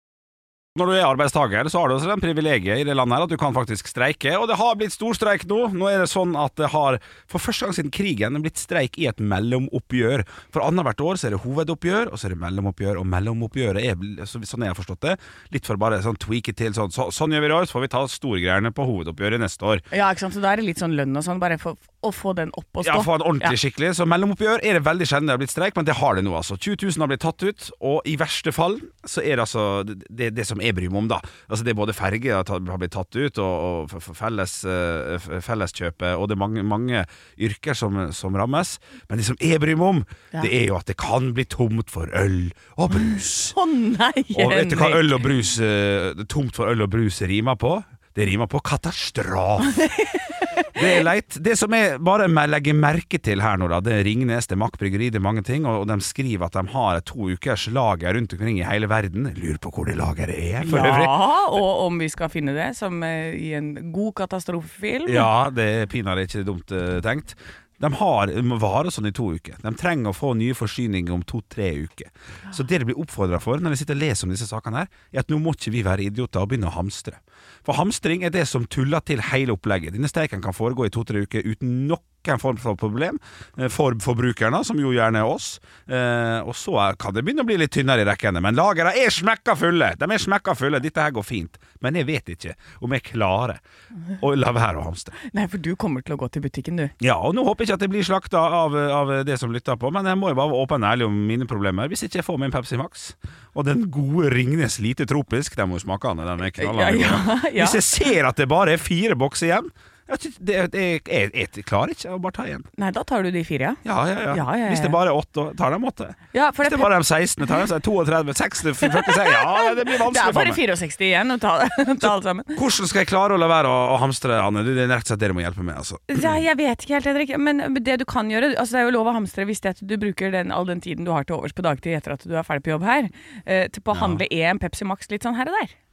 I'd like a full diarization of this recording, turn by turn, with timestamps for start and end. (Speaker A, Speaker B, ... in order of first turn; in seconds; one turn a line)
Speaker A: 0.7-19.8
Speaker B: 19.9-23.6
Speaker A: 22.8-43.5
Speaker B: 43.1-45.2
Speaker A: 44.3-49.9
Speaker B: 49.6-50.7
Speaker A: 50.7-61.2
Speaker B: 60.6-65.3
Speaker A: 65.0-93.6
Speaker A: 94.2-95.2
Speaker B: 95.2-96.9
Speaker A: 97.0-112.7
Speaker B: 106.6-107.9
Speaker B: 112.8-115.0
Speaker A: 113.8-120.6
Speaker B: 116.3-116.9
Speaker B: 118.9-122.6
Speaker A: 122.0-126.4
Speaker B: 126.1-135.7
Speaker A: 133.9-134.2